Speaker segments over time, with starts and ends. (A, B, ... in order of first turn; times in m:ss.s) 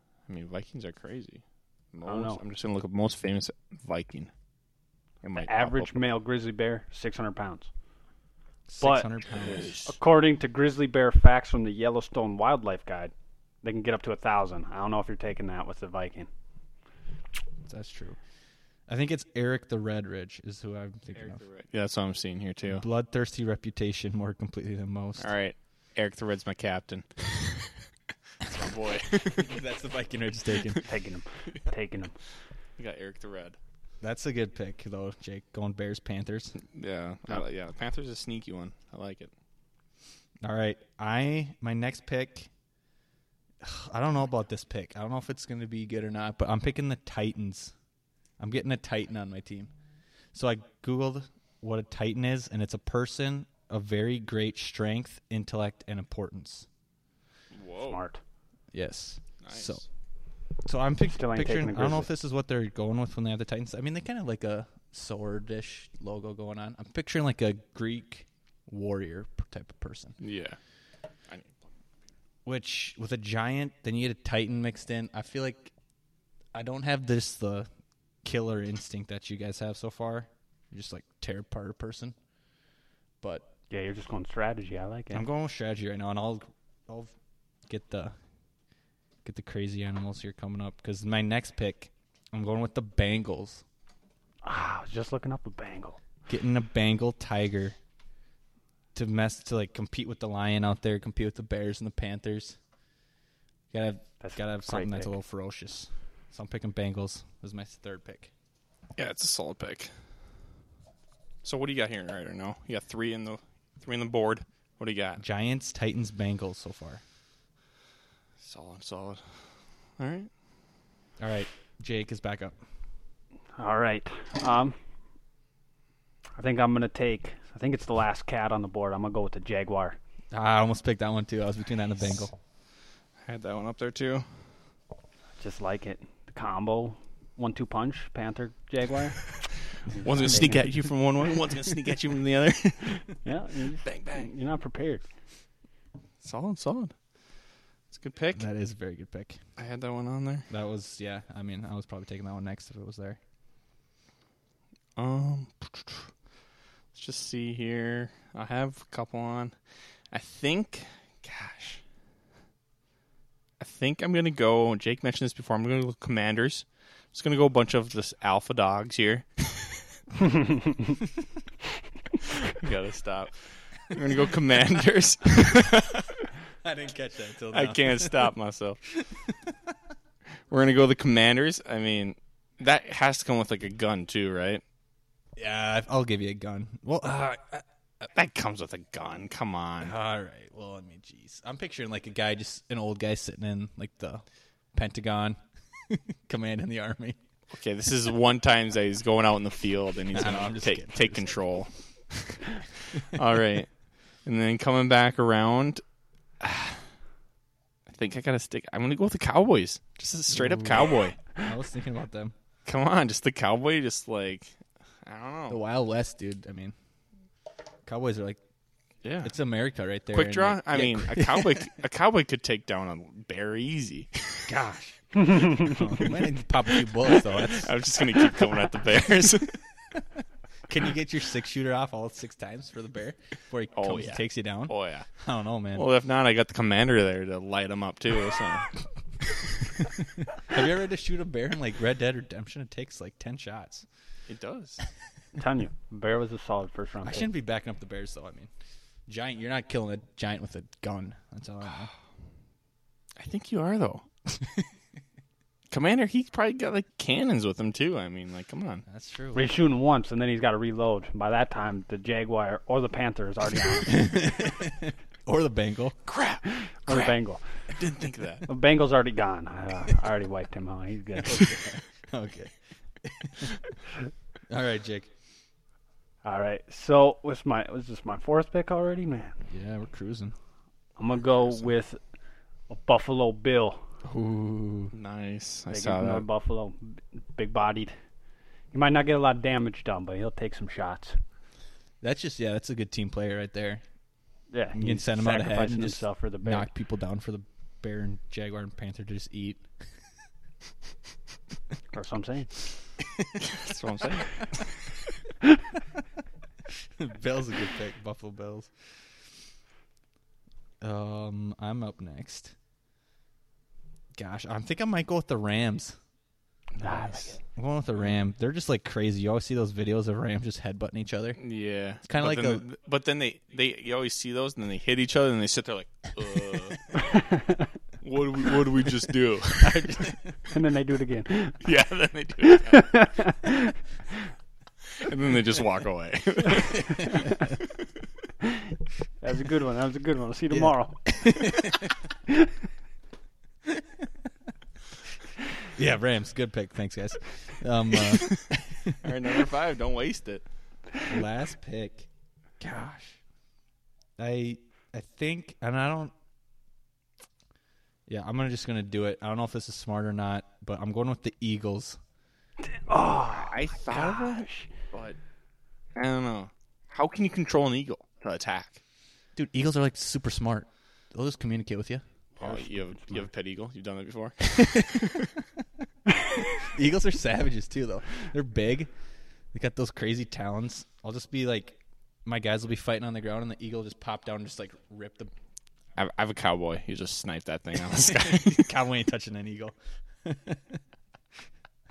0:00.3-0:04.3 A
0:02.0-0:02.4 B
0:05.2-0:05.9 A
0:05.4-0:07.7 B
0:08.7-0:09.8 C
0:08.8-0:09.1 B
0:09.3-0:10.0 A
0:09.9-0:13.1 B
0:13.6-0:16.3 B
0:17.7-0:18.2 C
0:18.9-0:21.4 C
0:21.1-0:22.8 A
0:22.7-0:25.3 C
0:25.2-0:27.8 A
0:28.5-0:29.6 A
0:29.4-0:30.9 C
0:30.9-0:32.2 B
0:32.8-0:33.6 A
0:34.0-0:36.6 C
0:36.6-0:39.3 A
0:40.4-0:42.5 C
0:43.6-0:47.8 C
0:48.4-0:49.7 C
0:50.3-0:56.7 C
0:57.5-0:58.0 A
0:57.9-0:58.2 B
0:58.7-0:59.8 C
0:59.4-0:59.8 A
1:00.6-1:10.2 C
1:01.2-1:02.1 B
1:10.2-1:10.6 A
1:11.3-1:11.6 A
1:12.4-1:15.7 C
1:16.5-1:17.7 C
1:18.2-1:22.2 C
1:23.7-1:25.2 B
1:25.1-1:27.2 C
1:27.7-1:28.2 C
1:29.2-1:33.6 C
1:34.4-1:36.0 B
1:36.3-1:37.8 C
1:39.0-1:42.6 C
1:43.7-1:48.3 C
1:44.2-1:45.1 B
1:49.0-1:49.9 A
1:51.4-1:55.2 A
1:55.2-1:57.0 C
1:58.4-1:59.5 A
2:00.0-2:00.3 A
2:01.2-2:02.6 C
2:03.6-2:04.8 B
2:06.4-2:10.0 B
2:10.3-2:12.3 C
2:13.2-2:14.3 A
2:15.4-2:20.7 B
2:20.0-2:23.1 A
2:23.2-2:25.0 B
2:23.8-2:24.3 A
2:26.2-2:27.0 A
2:27.9-2:28.4 A
2:28.4-2:29.4 C
2:29.6-2:30.5 A
2:30.5-2:33.2 C
2:35.0-2:36.1 A
2:36.9-2:39.6 A
2:40.1-2:41.8 A
2:43.6-2:49.9 A
2:52.5-2:56.3 A
2:56.6-2:58.3 C
2:57.5-2:58.8 A
2:59.0-2:59.5 C
3:00.5-3:04.6 A
3:05.4-3:07.6 C
3:08.1-3:09.9 A
3:09.8-3:17.2 C
3:17.5-3:22.4 A
3:20.1-3:21.4 C
3:23.0-3:23.7 A
3:24.2-3:25.8 A
3:26.4-3:26.9 A
3:27.9-3:31.2 A
3:30.3-3:32.3 C
3:32.6-3:35.6 A
3:35.5-3:36.7 C
3:37.9-3:38.4 C
3:39.0-3:39.3 A
3:39.2-3:41.6 C
3:40.1-3:44.5 A
3:44.5-3:47.8 C
3:47.1-3:49.6 A
3:50.7-3:55.9 C
3:53.7-3:55.1 A
3:55.7-3:58.8 A
4:00.3-4:03.9 C
4:04.3-4:04.8 A
4:05.4-4:07.3 B
4:07.0-4:08.5 C
4:09.1-4:11.9 C
4:13.2-4:14.1 A
4:15.7-4:18.8 A
4:18.9-4:19.5 C
4:19.4-4:24.3 B
4:23.9-4:26.0 C
4:26.1-4:28.5 A
4:26.5-4:27.4 B
4:28.5-4:31.4 B
4:31.3-4:33.5 C
4:34.5-4:35.1 C
4:36.2-4:39.4 B
4:39.5-4:40.4 C
4:41.0-4:42.0 B
4:42.7-4:43.8 B
4:44.0-4:44.9 C
4:44.9-4:46.3 A
4:45.7-4:47.9 B
4:48.7-4:51.2 B
4:52.0-4:53.8 C
4:54.5-4:56.7 B
4:54.8-4:59.7 C
5:01.9-5:02.7 B
5:03.4-5:04.7 A
5:07.0-5:08.9 C
5:10.8-5:12.6 C
5:14.2-5:16.0 C
5:16.8-5:17.4 A
5:16.8-5:17.4 B
5:16.9-5:21.4 C
5:21.4-5:27.0 A
5:22.0-5:22.6 C
5:27.2-5:27.6 B
5:28.0-5:30.2 A
5:29.6-5:30.3 C
5:30.5-5:31.6 B
5:31.6-5:33.0 A
5:32.4-5:33.8 B
5:35.0-5:37.0 A
5:36.9-5:37.5 C
5:39.2-5:41.3 B
5:40.5-5:41.9 C
5:45.7-5:49.0 C
5:48.0-5:48.4 A
5:49.0-5:50.4 A
5:51.1-5:52.1 C
5:52.6-5:53.2 C
5:54.2-5:56.1 C
5:58.1-6:02.0 C
6:02.7-6:04.7 B
6:03.3-6:05.2 A
6:06.0-6:08.8 A
6:09.4-6:12.0 C
6:12.4-6:15.3 A
6:12.4-6:13.3 B
6:14.6-6:15.0 C
6:16.6-6:18.9 C
6:19.5-6:25.3 C
6:26.0-6:28.7 A
6:28.0-6:30.8 C